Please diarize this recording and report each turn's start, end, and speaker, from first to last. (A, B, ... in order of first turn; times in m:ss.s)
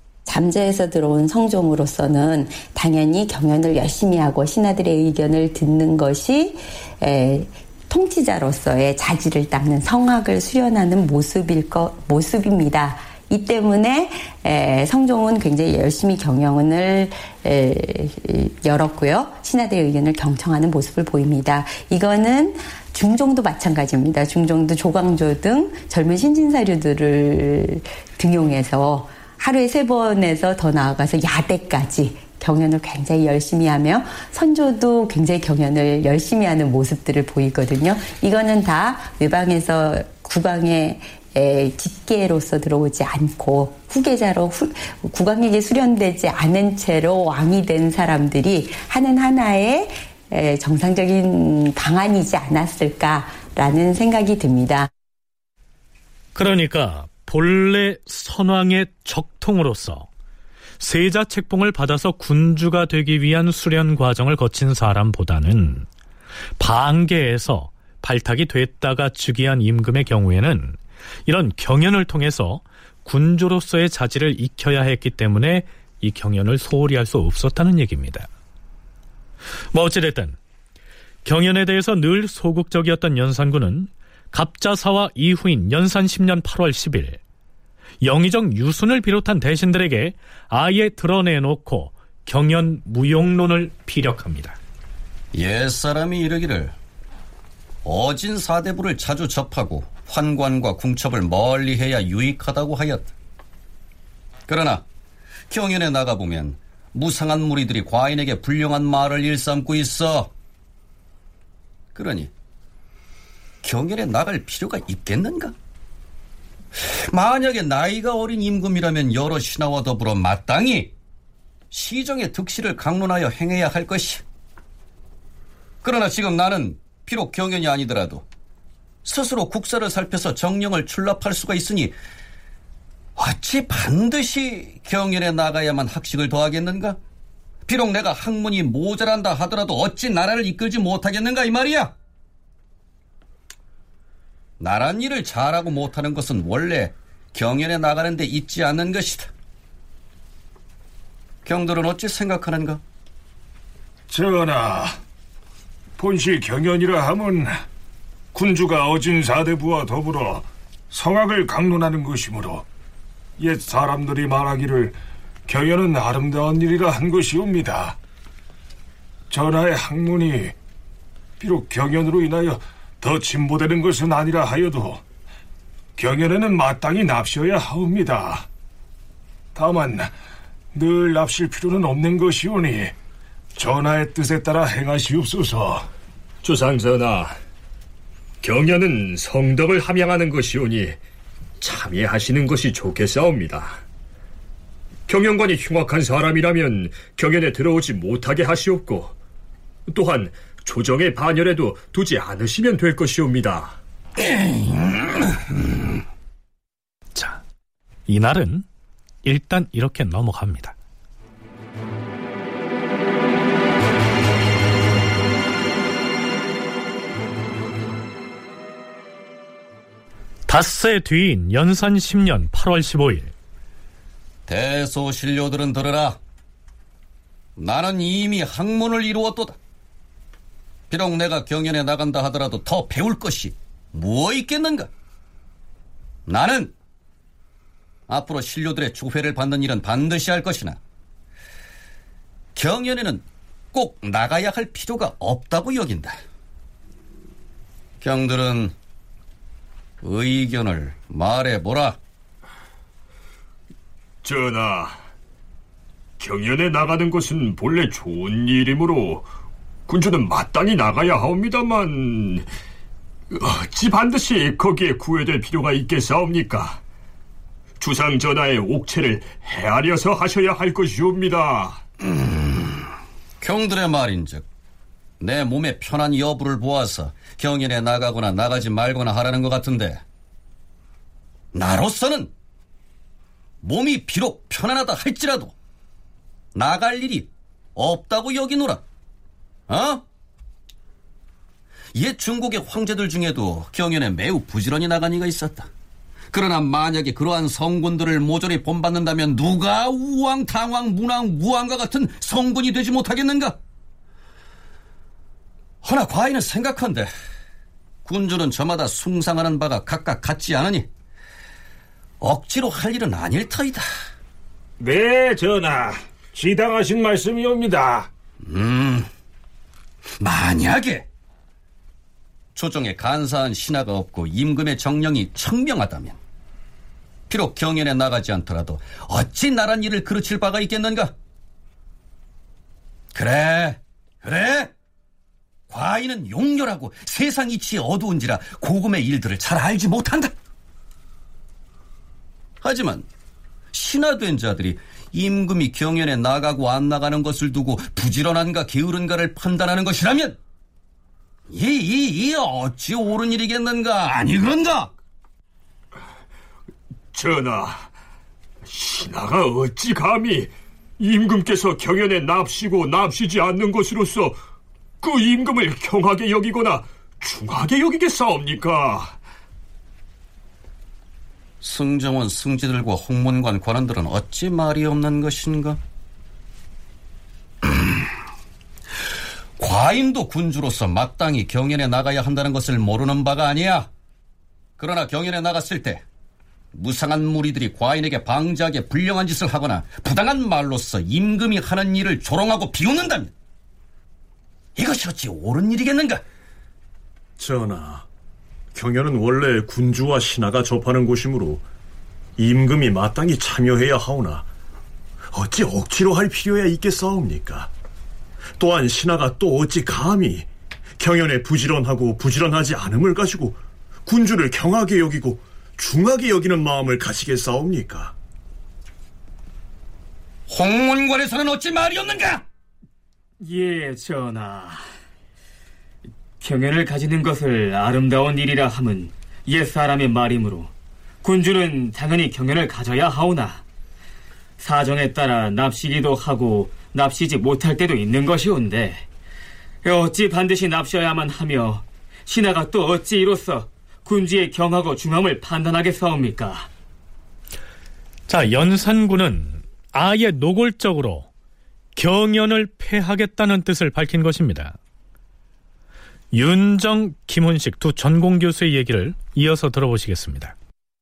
0:00.3-0:54.9 A
0:56.4-1:00.1 B
1:00.8-1:05.9 B
1:06.6-1:18.3 B
1:19.7-1:20.4 B
1:21.2-1:27.2 B
1:28.0-1:34.6 B
1:35.3-1:36.7 C
1:37.8-1:43.1 C
1:44.5-1:44.8 C
1:45.5-1:50.3 C
1:52.0-1:52.3 C
1:53.6-1:55.5 C
1:56.8-2:00.9 C
2:01.7-2:04.2 C
2:05.8-2:08.2 C
2:09.0-2:11.9 C
2:13.2-2:17.0 C
2:17.7-2:21.9 C
2:24.6-2:29.3 C
2:31.5-2:32.8 C
2:34.1-2:35.0 D
2:36.0-2:37.6 D
2:38.3-2:42.6 D
2:43.4-2:45.0 D
2:45.5-2:48.0 D
2:49.3-2:50.5 D
2:51.4-2:55.0 D
2:56.0-2:58.5 D
2:59.6-3:00.1 D
3:00.7-3:02.9 D
3:03.6-3:05.9 D
3:06.4-3:07.4 E
3:08.4-3:11.0 E
3:11.6-3:13.8 E
3:15.1-3:19.1 E
3:19.9-3:23.8 E
3:24.4-3:25.0 C
3:27.2-3:27.4 B
3:28.1-3:28.6 B
3:29.2-3:30.8 B
3:40.5-3:43.3 B
3:44.5-3:46.2 C
3:47.6-3:49.6 C
3:50.9-3:54.9 C
3:56.3-3:56.7 C
3:58.1-4:00.8 C
4:02.6-4:06.2 C
4:08.0-4:08.7 C
4:10.0-4:12.0 C
4:14.2-4:15.0 E
4:16.2-4:19.3 E
4:19.9-4:22.5 E
4:23.3-4:26.8 E
4:27.8-4:31.8 E
4:32.0-4:32.8 C
4:33.4-4:34.4 C
4:35.2-4:40.0 C
4:41.5-4:42.3 C
4:43.6-4:45.5 C
4:46.6-4:48.8 C
4:49.7-4:50.0 C
4:51.9-4:55.7 C
4:56.3-5:03.6 C
5:05.8-5:07.1 C
5:08.0-5:10.9 C
5:12.2-5:13.8 C
5:14.8-5:18.1 D
5:18.4-5:19.1 C
5:20.2-5:21.1 C
5:22.6-5:26.2 C
5:27.3-5:31.1 C
5:33.1-5:34.7 C
5:35.7-5:40.3 C
5:42.6-5:43.1 C
5:43.7-5:50.4 C
5:51.5-5:54.9 C
5:57.1-5:57.9 E
5:58.6-6:04.4 E
6:05.0-6:09.2 E
6:11.6-6:15.8 C
6:19.6-6:23.9 C
6:24.8-6:26.0 C
6:26.7-6:33.3 C
6:34.8-6:36.2 C
6:37.4-6:38.0 F
6:38.7-6:41.6 F
6:42.4-6:44.5 F
6:45.3-6:47.7 F
6:48.6-6:58.2 F
7:00.5-7:02.4 C
7:03.4-7:04.8 G
7:06.4-7:10.7 G
7:11.2-7:13.6 G
7:14.6-7:19.0 G
7:19.8-7:26.7 G
7:28.3-7:31.3 B
7:32.0-7:34.8 B
7:36.3-7:40.6 B